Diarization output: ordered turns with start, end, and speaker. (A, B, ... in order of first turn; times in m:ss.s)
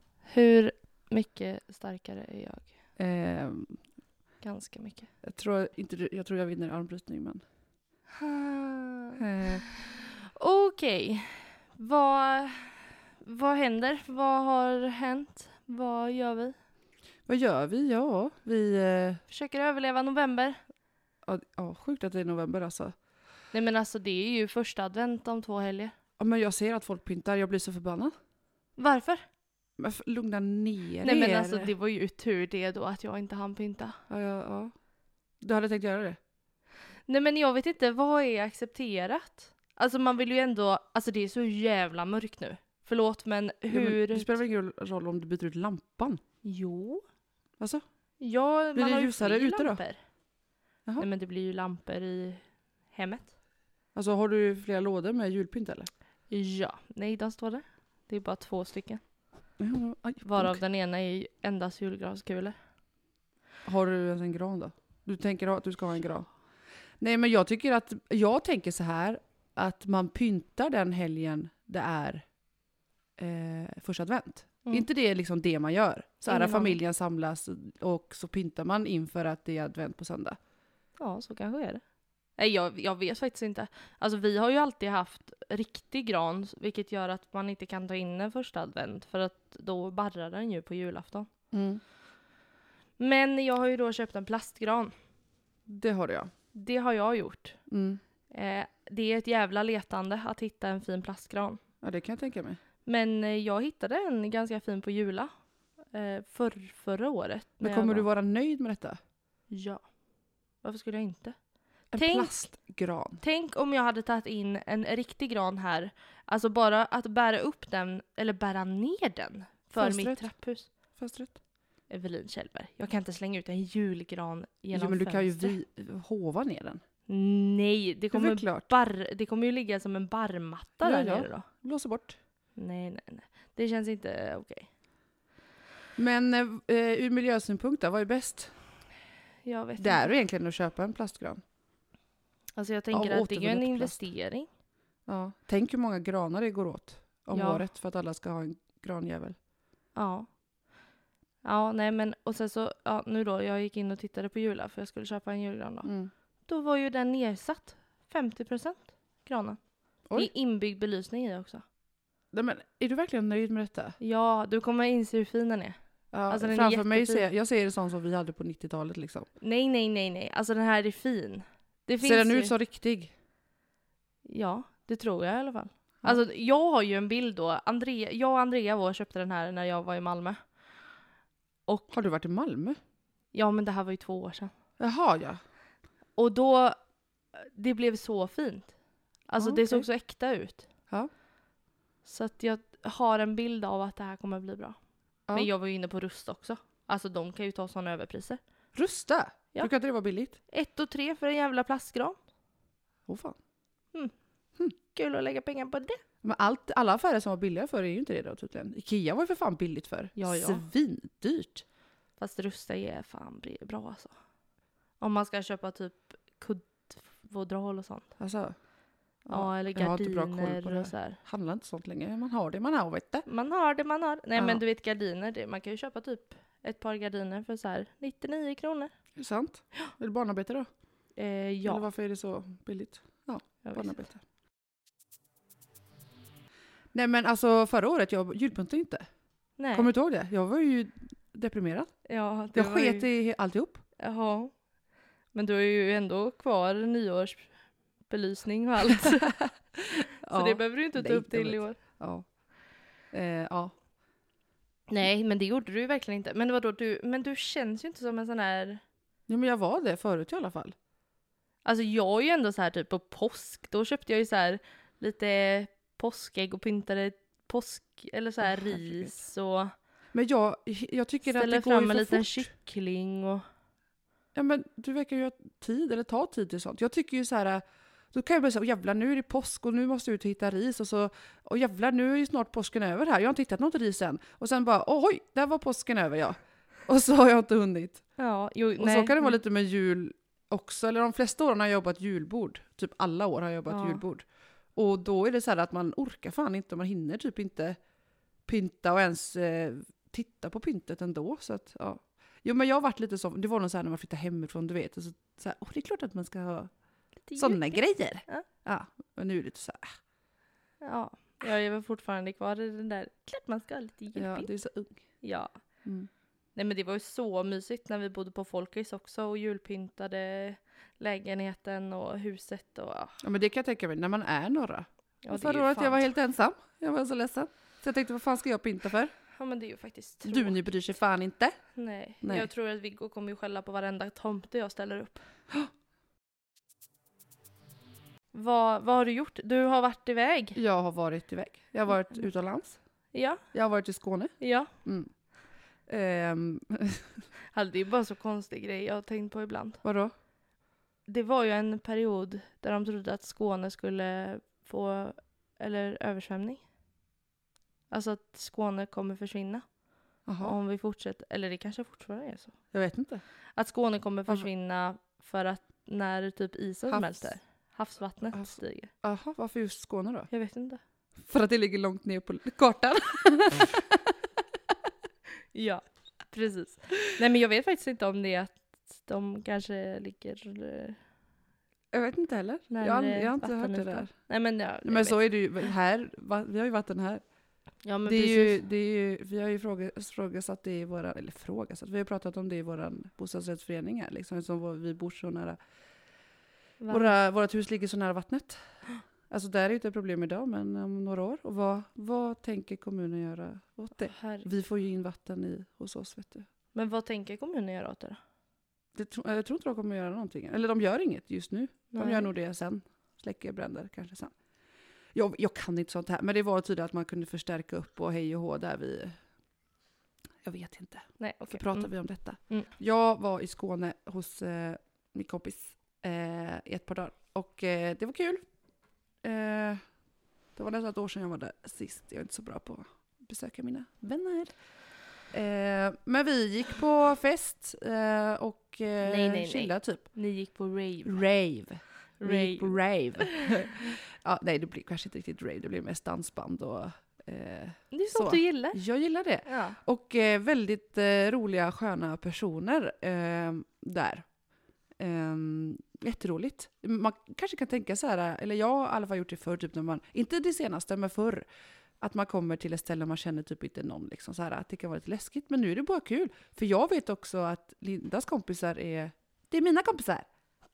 0:00.3-0:02.7 A
0:03.0-0:03.8 B
0:04.4-0:05.1 A
0:05.2-0:07.4 B
0:08.2-0:16.6 A
0:09.2-0:09.6 B
0:17.3-0:19.2 B
0:19.3-0:20.6 A
0:21.2-0:23.0 B
0:23.5-0:26.0 A
0:26.2-0:28.1 B
0:28.8-0:29.2 A
0:29.8-0:31.7 B
0:31.0-0:34.0 A
0:34.1-0:34.7 B
0:35.4-0:36.2 B
0:37.1-0:44.3 A
0:43.7-0:46.2 B
0:46.4-0:47.0 A
0:48.2-0:50.0 A
0:48.8-0:49.8 B
0:51.0-0:53.3 A
0:53.9-0:55.9 B
0:56.3-0:59.0 A
0:59.6-1:00.6 B
1:00.2-1:02.6 A
1:03.6-1:06.3 B
1:07.0-1:12.2 B
1:13.2-1:20.4 B
1:16.3-1:16.8 A
1:21.0-1:21.8 A
1:22.4-1:31.3 A
1:31.5-1:31.8 B
1:33.0-1:34.9 A
1:35.7-1:36.3 B
1:36.5-1:37.6 A
1:37.7-1:38.0 B
1:38.3-1:41.6 A
1:41.8-1:42.6 B
1:42.8-1:45.3 A
1:45.9-1:48.1 A
1:47.6-1:49.0 B
1:49.5-1:49.8 A
1:50.6-1:51.4 A
1:51.9-1:53.2 B
1:52.0-1:52.3 A
1:53.2-2:00.7 A
1:59.8-2:00.3 B
2:01.0-2:01.4 B
2:01.9-2:05.6 A
2:04.7-2:06.8 B
2:07.1-2:11.5 A
2:08.1-2:08.7 B
2:10.8-2:12.2 B
2:12.6-2:14.7 A
2:16.0-2:18.5 B
2:19.4-2:20.1 A
2:19.8-2:21.4 B
2:22.6-2:24.5 A
2:22.9-2:24.0 B
2:25.1-2:29.4 B
2:27.3-2:27.6 A
2:30.0-2:30.3 A
2:31.4-2:35.9 A
2:35.8-2:36.1 B
2:36.5-2:39.6 A
2:40.1-2:41.6 A
2:42.3-2:44.0 B
2:44.0-2:45.8 A
2:46.1-2:49.3 B
2:46.3-2:47.3 A
2:49.4-2:52.5 A
2:52.0-2:53.1 B
2:54.3-3:00.4 A
3:01.7-3:01.9 A
3:01.9-3:02.8 B
3:03.3-3:04.5 A
3:04.8-3:05.4 B
3:06.2-3:06.8 A
3:07.3-3:08.7 A
3:09.3-3:10.7 A
3:09.4-3:09.9 B
3:12.0-3:14.8 A
3:15.3-3:18.4 A
3:18.8-3:20.4 B
3:20.5-3:22.2 A
3:23.1-3:23.4 B
3:24.9-3:26.0 A
3:26.2-3:31.6 B
3:30.2-3:30.6 A
3:32.2-3:34.1 A
3:35.0-3:38.1 A
3:38.2-3:38.6 B
3:39.2-3:43.2 B
3:39.3-3:41.2 A
3:43.3-3:48.9 A
3:44.4-3:44.6 B
3:49.2-3:50.7 B
3:51.2-3:51.9 A
3:51.6-3:54.2 B
3:53.6-3:54.1 A
3:56.9-3:59.1 B
3:59.6-3:59.9 A
3:59.7-4:01.9 B
4:02.1-4:03.1 A
4:02.5-4:03.8 B
4:04.0-4:04.5 A
4:05.3-4:07.5 A
4:08.1-4:09.4 A
4:09.1-4:12.2 B
4:10.3-4:11.8 A
4:13.1-4:13.8 B
4:14.9-4:18.8 A
4:19.3-4:20.8 B
4:21.6-4:29.7 A
4:28.5-4:29.1 B
4:30.1-4:32.5 B
4:31.2-4:33.4 A
4:34.3-4:48.0 B
4:48.2-4:49.4 A
4:48.8-4:57.8 B
4:53.7-4:54.0 A
4:58.5-5:06.7 B
5:07.3-5:08.5 A
5:07.4-5:09.9 B
5:10.8-5:14.5 A
5:14.2-5:15.0 B
5:15.2-5:15.5 A
5:16.6-5:23.2 A
5:23.2-5:29.1 B
5:25.2-5:26.1 A
5:29.3-5:30.6 A
5:30.2-5:31.6 B
5:31.8-5:35.2 A
5:32.2-5:32.5 B
5:38.3-5:40.6 A
5:40.6-5:42.8 B
5:43.1-5:43.4 A
5:43.5-5:45.1 B
5:44.4-5:44.7 A
5:45.9-5:47.1 B
5:47.5-5:49.8 A
5:49.8-5:50.1 B
5:51.1-5:56.6 A
5:57.9-5:59.6 A
6:00.3-6:00.6 B
6:00.4-6:02.6 A
6:02.7-6:03.2 B
6:03.6-6:08.9 A
6:06.9-6:07.3 B
6:08.3-6:10.3 B
6:10.3-6:10.8 A
6:11.2-6:14.2 B
6:15.5-6:21.0 A
6:21.9-6:24.1 B
6:22.7-6:25.2 A
6:24.8-6:27.2 B
6:27.8-6:28.6 A
6:28.0-6:35.6 B
6:36.8-6:37.2 A
6:36.9-6:38.6 B
6:39.3-6:46.5 B
6:44.0-6:44.5 A
6:46.7-6:48.2 A
6:49.0-6:54.3 B
6:51.9-6:52.3 A
6:55.1-6:59.2 B
7:00.4-7:08.4 B
7:01.2-7:01.9 A
7:09.2-7:09.8 B
7:10.6-7:14.5 B
7:15.3-7:20.1 B
7:19.0-7:21.2 A
7:21.0-7:34.3 B
7:22.2-7:23.8 A
7:27.9-7:28.8 A
7:29.5-7:29.8 A
7:35.0-7:41.5 B
7:42.0-7:50.3 B